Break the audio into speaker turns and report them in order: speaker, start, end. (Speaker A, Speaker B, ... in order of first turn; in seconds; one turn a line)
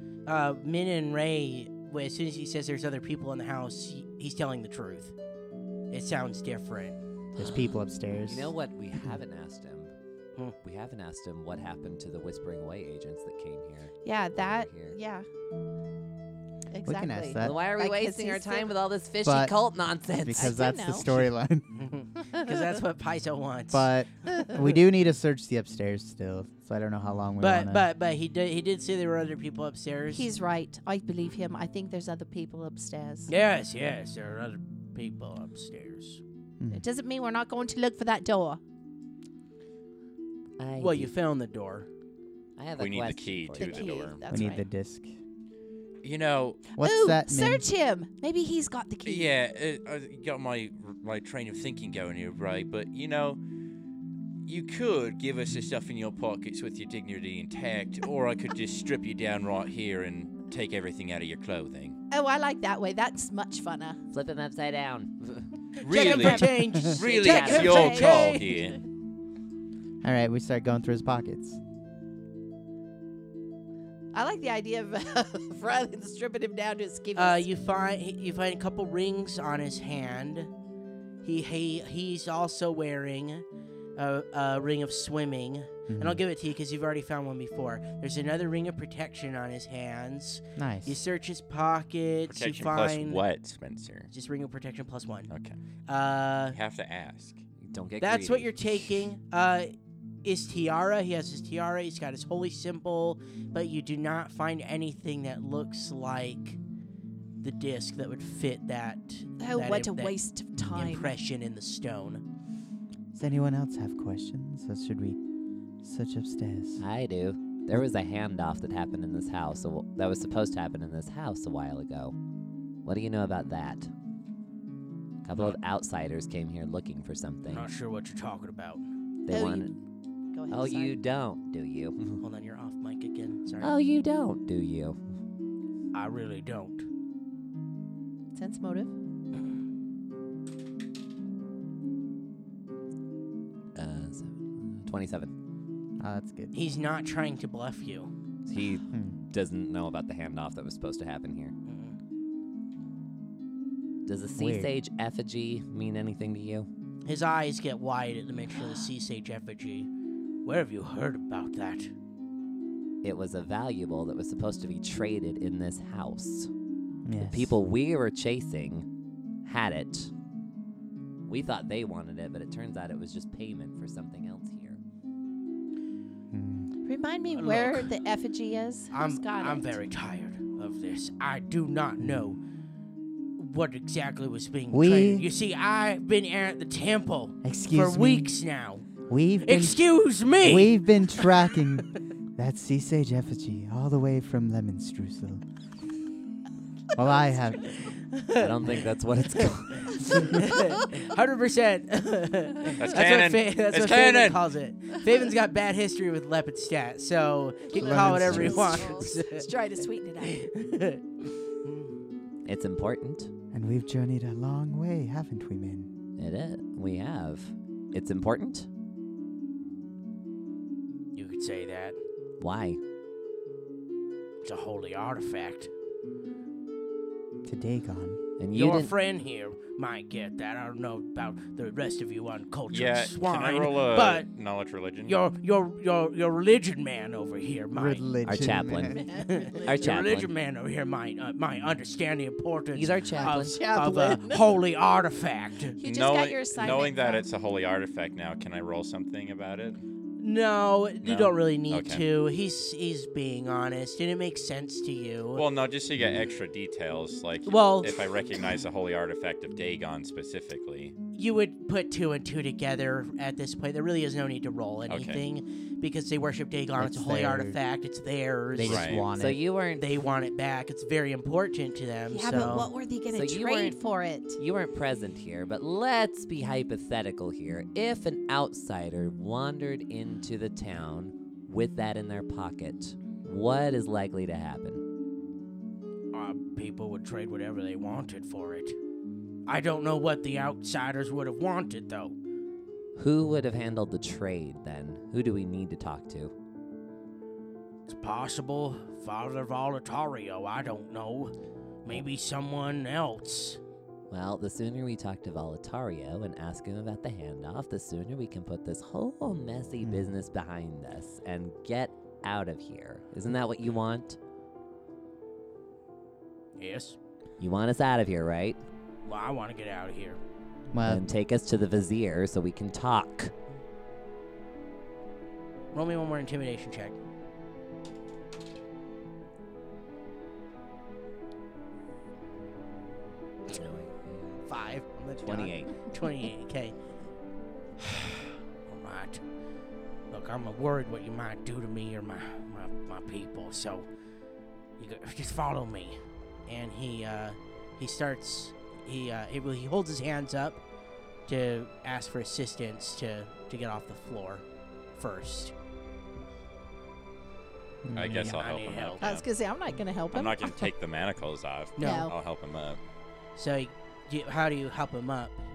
Speaker A: 0.2-5.1
Speaker A: 5.9-7.0
Speaker B: 7.4-9.2
Speaker C: 7.4-7.7
Speaker D: 8.2-9.9
Speaker D: 10.6-15.0
Speaker C: 14.0-15.3
Speaker C: 16.7-18.7
Speaker B: 16.8-17.6
Speaker D: 17.4-20.7
Speaker B: 19.2-19.5
Speaker B: 20.2-21.9
Speaker C: 20.3-21.1
Speaker A: 21.1-23.9
Speaker C: 22.2-22.7
Speaker B: 23.7-27.9
Speaker A: 27.4-30.3
Speaker C: 30.1-33.3
Speaker A: 33.3-36.2
Speaker B: 36.6-36.9
Speaker C: 36.7-38.6
Speaker D: 40.6-41.1
Speaker A: 40.8-41.9
Speaker D: 42.6-43.9
Speaker E: 42.8-44.2
Speaker C: 43.6-44.7
Speaker B: 44.3-45.2
Speaker E: 46.0-46.7
Speaker C: 46.6-49.3
Speaker B: 46.8-47.6
Speaker E: 49.0-53.4
Speaker E: 54.5-62.0
Speaker C: 62.1-64.0
Speaker D: 64.1-68.2
Speaker A: 65.8-68.5
Speaker E: 65.8-68.8
Speaker B: 66.7-67.0
Speaker C: 67.2-68.4
Speaker B: 70.0-71.6
Speaker C: 74.1-77.5
Speaker A: 77.1-80.5
Speaker A: 81.2-83.4
Speaker A: 84.0-93.2
Speaker B: 85.9-86.2
Speaker B: 90.5-91.0
Speaker E: 92.2-94.1
Speaker A: 94.1-95.3
Speaker E: 95.3-95.6
Speaker A: 95.9-96.6
Speaker E: 96.5-97.4
Speaker D: 97.6-98.9
Speaker A: 98.0-106.6
Speaker A: 107.4-112.2
Speaker C: 109.4-111.1
Speaker B: 110.6-110.8
Speaker B: 113.1-115.2
Speaker B: 115.8-116.8
Speaker D: 116.8-122.1
Speaker D: 122.8-123.9
Speaker D: 125.2-127.7
Speaker A: 127.5-128.8
Speaker D: 129.2-129.7
Speaker C: 129.3-129.8
Speaker C: 130.3-131.0
Speaker D: 130.5-132.2
Speaker A: 132.2-133.7
Speaker D: 133.6-135.0
Speaker A: 135.9-136.8
Speaker C: 138.3-138.9
Speaker D: 143.7-145.3
Speaker B: 146.0-146.5
Speaker A: 146.5-148.1
Speaker D: 148.4-151.5
Speaker B: 148.9-149.2
Speaker A: 151.7-151.9
Speaker D: 154.1-156.7
Speaker B: 154.4-154.7
Speaker A: 157.0-159.9
Speaker A: 160.4-161.9
Speaker D: 163.0-166.5
Speaker B: 167.0-167.6
Speaker D: 167.2-168.9
Speaker D: 169.4-170.1
Speaker D: 171.3-174.8
Speaker B: 176.3-176.7
Speaker C: 176.8-179.8
Speaker A: 177.3-177.9
Speaker A: 178.9-182.4
Speaker A: 183.4-188.9
Speaker B: 184.7-185.3
Speaker B: 187.4-188.3
Speaker B: 189.1-195.4
Speaker A: 189.4-191.3
Speaker B: 196.9-197.7
Speaker C: 197.0-197.6
Speaker A: 197.8-198.8
Speaker D: 198.3-200.3
Speaker A: 199.4-209.5
Speaker E: 202.8-204.4
Speaker C: 207.7-210.4
Speaker B: 207.7-209.0
Speaker A: 210.2-211.0
Speaker D: 212.4-213.3
Speaker B: 213.5-215.9
Speaker D: 216.2-218.7
Speaker A: 221.1-222.0
Speaker D: 222.4-222.8
Speaker A: 224.4-225.7
Speaker B: 227.4-228.2
Speaker D: 228.4-228.9
Speaker A: 228.5-234.3
Speaker E: 232.7-235.2
Speaker A: 235.0-238.0
Speaker B: 237.7-239.0
Speaker D: 238.2-240.3
Speaker C: 238.9-239.7
Speaker A: 239.1-245.8
Speaker D: 242.7-243.6
Speaker C: 242.9-244.5
Speaker C: 245.8-247.2
Speaker E: 245.8-249.8
Speaker A: 250.2-255.4
Speaker E: 251.0-252.0
Speaker E: 255.3-260.9
Speaker B: 256.0-256.2
Speaker A: 257.4-258.2
Speaker A: 261.1-268.9
Speaker E: 264.9-265.2
Speaker B: 266.8-267.6
Speaker B: 268.5-269.4
Speaker E: 268.6-269.1
Speaker D: 269.0-270.1
Speaker A: 269.8-272.7
Speaker C: 272.1-274.4
Speaker B: 272.3-272.6
Speaker D: 273.1-273.8
Speaker D: 274.4-284.8
Speaker A: 286.1-288.8
Speaker A: 289.5-292.1
Speaker D: 292.9-296.3
Speaker A: 297.9-301.3
Speaker A: 301.8-303.6
Speaker D: 304.1-314.2
Speaker B: 309.8-310.1
Speaker A: 316.6-317.0
Speaker D: 317.4-318.6
Speaker A: 319.1-320.2
Speaker B: 320.7-321.1
Speaker D: 320.8-323.3
Speaker A: 325.7-327.0
Speaker D: 333.5-334.4
Speaker A: 334.4-336.7
Speaker D: 335.2-335.8
Speaker A: 337.8-339.2
Speaker A: 340.1-343.9
Speaker A: 344.8-350.6
Speaker A: 351.3-355.5
Speaker B: 357.8-358.4
Speaker E: 357.9-359.3
Speaker A: 358.1-359.1
Speaker C: 359.0-360.7
Speaker E: 360.1-362.8
Speaker A: 361.8-362.1
Speaker C: 361.8-362.1
Speaker A: 363.4-365.4